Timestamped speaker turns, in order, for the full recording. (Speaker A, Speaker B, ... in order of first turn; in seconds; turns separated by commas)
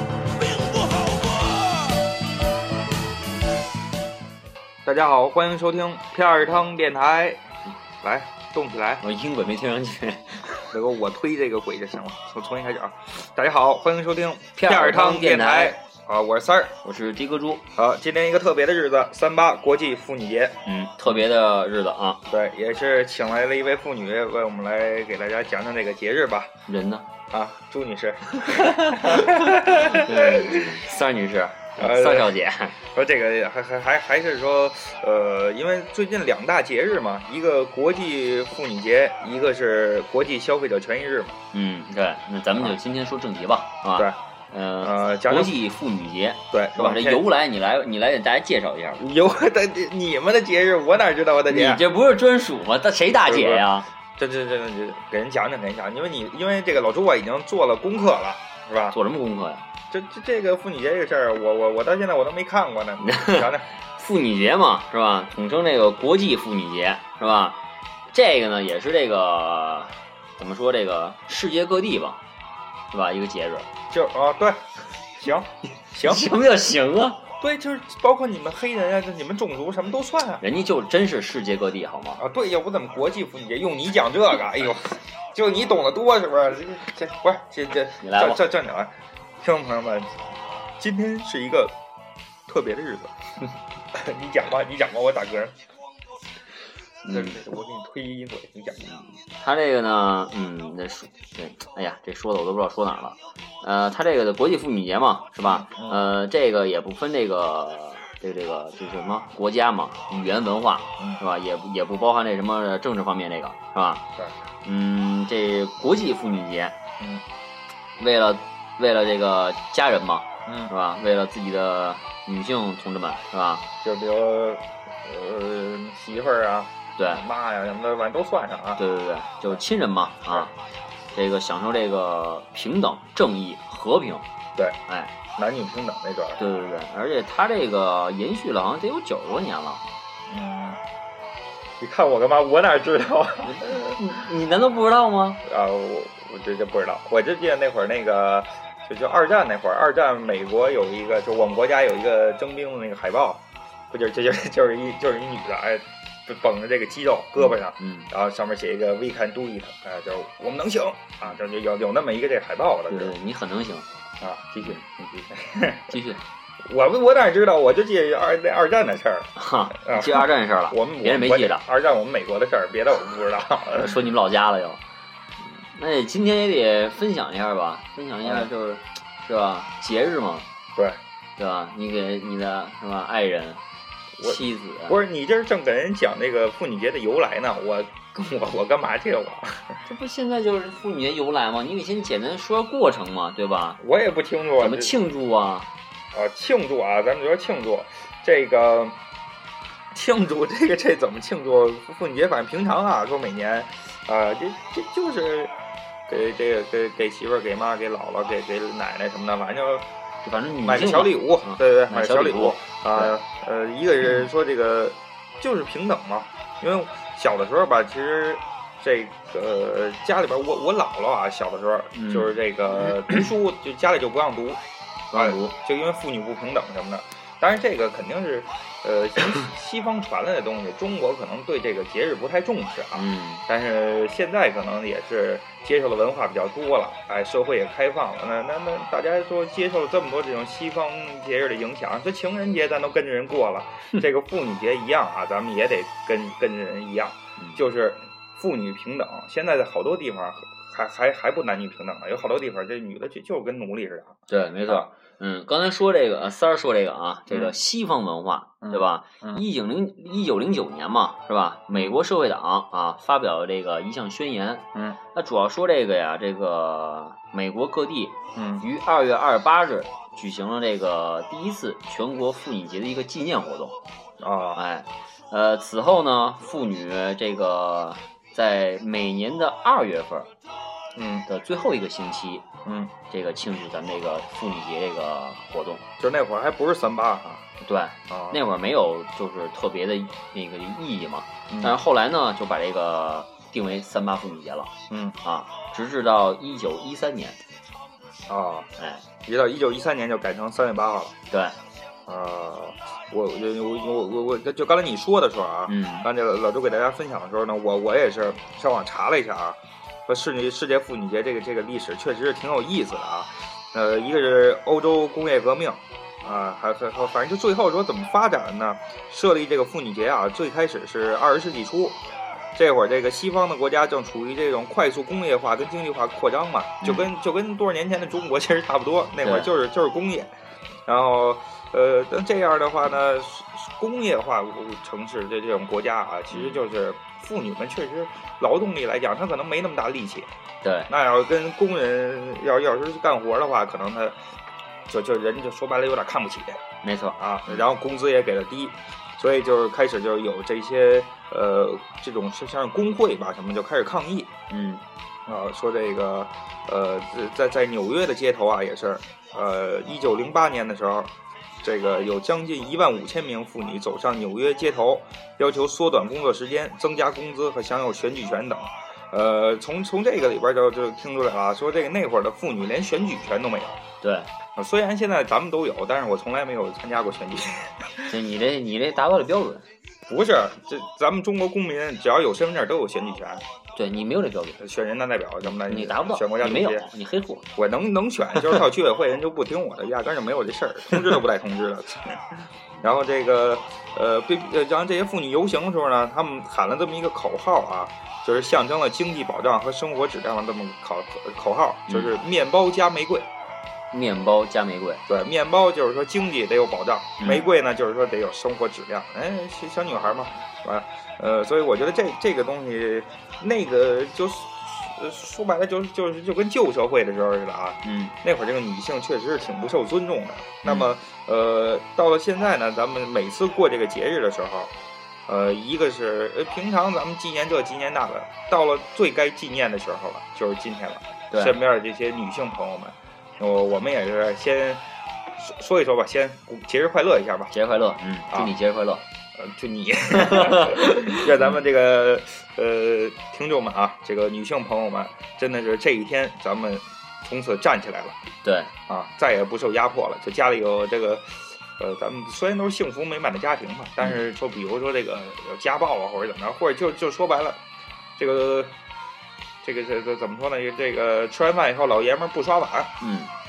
Speaker A: 0.2-2.2, Speaker B: 4.8-7.5, Speaker B: 8.0-9.0, Speaker C: 9.0-10.7, Speaker B: 10.7-16.8, Speaker C: 14.6-15.7, Speaker C: 16.8-17.6, Speaker B: 17.7-21.2, Speaker C: 20.6-22.2, Speaker B: 22.3-26.5, Speaker C: 26.7-27.1, Speaker B: 27.3-30.8, Speaker C: 28.4-32.8, Speaker B: 31.8-41.4, Speaker C: 41.5-49.0, Speaker B: 44.8-45.6, Speaker B: 46.5-47.2, Speaker B: 49.0-51.8, Speaker C: 51.5-53.9, Speaker B: 53.2-59.0, Speaker C: 58.9-59.6, Speaker B: 59.9-63.7, Speaker C: 63.0-67.6, Speaker C: 68.1-72.2, Speaker C: 72.9-73.7, Speaker B: 73.9-74.6, Speaker B: 75.2-76.3, Speaker C: 76.0-77.3, Speaker B: 77.4-80.4, Speaker C: 80.4-82.2, Speaker B: 82.2-90.2, Speaker C: 88.0-88.4, Speaker B: 90.8-91.8, Speaker B: 92.5-93.2, Speaker B: 93.9-95.6, Speaker C: 97.0-97.4, Speaker B: 97.1-99.0, Speaker C: 99.4-114.0, Speaker B: 105.4-106.0, Speaker C: 114.6-116.8, Speaker B: 117.0-117.2, Speaker C: 118.0-123.7, Speaker B: 120.5-120.7, Speaker B: 123.8-128.8, Speaker C: 127.0-127.2, Speaker C: 128.8-130.5, Speaker C: 131.1-134.2, Speaker C: 134.9-135.1, Speaker B: 135.3-136.4, Speaker C: 136.4-139.8, Speaker B: 140.3-140.8, Speaker B: 141.8-144.0, Speaker C: 143.4-145.4, Speaker B: 145.4-163.1, Speaker C: 157.4-158.1, Speaker C: 162.9-163.9, Speaker B: 164.2-165.9, Speaker C: 164.6-165.3, Speaker C: 165.9-166.2, Speaker B: 166.6-174.0, Speaker C: 169.3-171.6, Speaker C: 173.7-174.8, Speaker C: 175.6-180.5, Speaker C: 181.4-183.6, Speaker B: 184.2-189.8, Speaker C: 184.2-185.0, Speaker C: 189.8-193.8, Speaker B: 193.8-194.9, Speaker C: 194.6-195.7, Speaker B: 196.1-199.0, Speaker B: 199.9-205.5, Speaker B: 206.1-209.9, Speaker C: 210.2-213.1, Speaker B: 210.6-224.6, Speaker C: 221.9-222.3, Speaker C: 225.1-225.5, Speaker B: 225.1-254.9, Speaker C: 232.9-233.4, Speaker C: 254.3-273.8, Speaker B: 257.3-257.5, Speaker B: 258.6-259.4, Speaker B: 261.7-262.0, Speaker B: 268.3-268.6, Speaker B: 274.2-274.6, Speaker C: 274.5-280.3, Speaker B: 280.9-281.2, Speaker C: 281.3-282.4, Speaker B: 282.6-282.9, Speaker C: 283.1-285.8, Speaker B: 286.0-287.4, Speaker C: 287.6-294.7, Speaker B: 288.1-288.4, Speaker B: 291.5-291.8, Speaker B: 294.9-295.2, Speaker C: 295.2-297.4, Speaker B: 298.3-298.7, Speaker C: 298.8-299.0, Speaker B: 299.2-301.1, Speaker C: 301.3-301.6, Speaker B: 302.1-322.0, Speaker C: 305.7-306.1, Speaker B: 322.6-330.3, Speaker C: 326.8-327.1, Speaker C: 329.2-329.5, Speaker B: 330.9-340.3, Speaker C: 336.3-336.6, Speaker C: 340.6-340.9, Speaker B: 340.9-344.2, Speaker B: 344.9-346.6, Speaker C: 346.8-347.6, Speaker B: 347.2-354.3, Speaker C: 354.5-354.8, Speaker B: 355.2-361.1, Speaker B: 361.6-373.8, Speaker C: 374.0-374.3, Speaker B: 374.6-378.1, Speaker C: 378.1-379.6, Speaker B: 380.1-383.4, Speaker C: 383.7-384.6, Speaker B: 384.6-386.9, Speaker C: 385.5-387.4, Speaker B: 387.6-392.2, Speaker B: 392.8-403.3, Speaker C: 401.9-402.1, Speaker C: 403.9-405.0, Speaker B: 405.1-424.7, Speaker C: 407.2-407.5, Speaker C: 417.8-418.1, Speaker C: 420.6-420.9, Speaker B: 425.3-434.8, Speaker C: 431.3-431.6, Speaker B: 435.3-437.5, Speaker C: 437.5-439.0, Speaker B: 439.4-448.2, Speaker C: 440.1-441.6, Speaker C: 448.4-448.7, Speaker B: 448.9-457.6, Speaker B: 458.2-458.8, Speaker B: 459.6-463.0, Speaker C: 463.0-463.3